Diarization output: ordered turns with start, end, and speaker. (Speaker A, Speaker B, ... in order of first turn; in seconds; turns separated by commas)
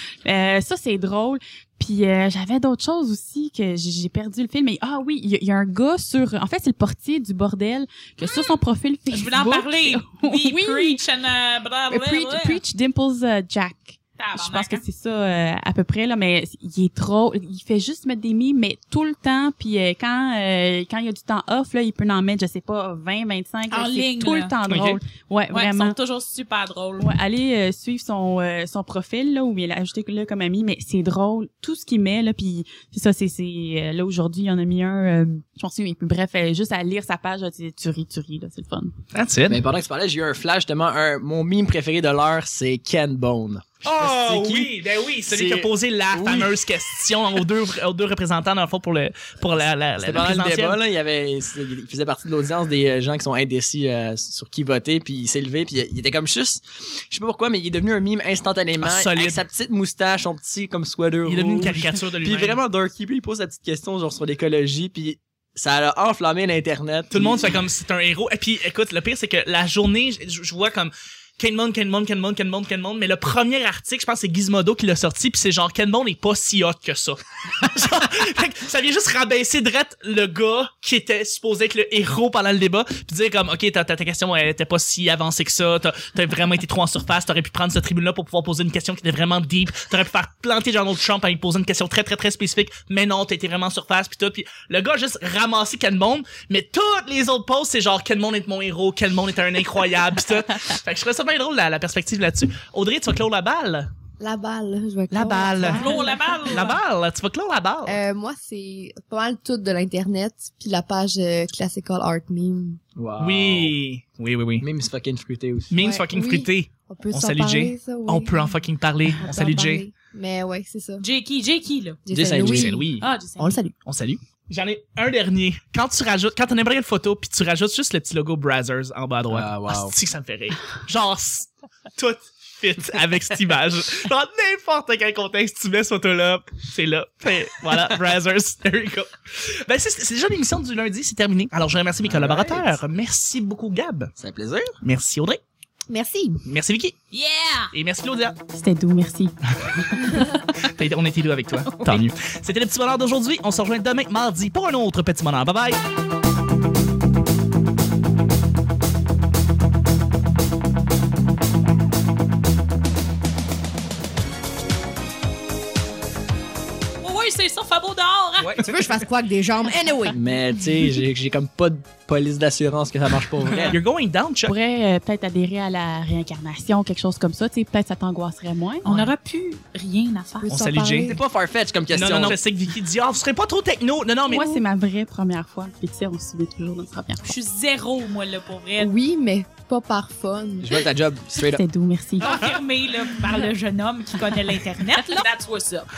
Speaker A: 0.2-11.0, Speaker B: 8.2-8.6, Speaker B: 9.1-12.6, Speaker A: 11.9-26.0, Speaker B: 14.2-14.8, Speaker B: 23.7-24.6, Speaker C: 24.6-25.0, Speaker B: 25.5-27.1, Speaker A: 27.0-38.9, Speaker C: 39.1-39.6, Speaker D: 39.5-44.7, Speaker C: 43.8-50.8, Speaker D: 45.3-46.5, Speaker D: 50.0-67.4, Speaker C: 58.8-59.4, Speaker C: 61.2-62.6, Speaker C: 67.1-103.9, Speaker E: 104.2-106.7, Speaker C: 105.1-108.0, Speaker B: 105.6-106.8, Speaker E: 107.8-112.8, Speaker D: 113.0-113.8, Speaker C: 113.2-114.7, Speaker D: 114.6-115.7, Speaker C: 115.7-119.8, Speaker E: 115.8-118.7, Speaker E: 119.2-121.0, Speaker B: 121.0-122.0, Speaker E: 122.0-123.7, Speaker D: 122.1-122.8, Speaker C: 122.4-123.1, Speaker B: 123.0-123.6, Speaker C: 123.8-144.1, Speaker D: 129.3-129.9, Speaker D: 142.0-142.8, Speaker D: 144.2-144.7, Speaker C: 144.8-145.4, Speaker E: 145.9-146.4, Speaker C: 146.4-146.9, Speaker B: 147.1-147.7, Speaker C: 147.7-148.4, Speaker A: 148.5-149.3, Speaker A: 150.0-150.3, Speaker C: 150.7-155.8, Speaker B: 167.0-168.6, Speaker C: 168.4-168.9, Speaker E: 168.6-170.2, Speaker D: 170.1-173.8, Speaker C: 173.7-174.5, Speaker A: 174.4-179.0, Speaker B: 178.8-180.5, Speaker E: 180.4-181.2, Speaker C: 180.5-181.2, Speaker D: 181.0-182.4, Speaker C: 181.9-184.6, Speaker A: 184.3-187.3, Speaker B: 187.2-188.9, Speaker E: 188.8-190.8, Speaker D: 190.6-191.6, Speaker A: 191.3-192.5, Speaker B: 192.2-195.9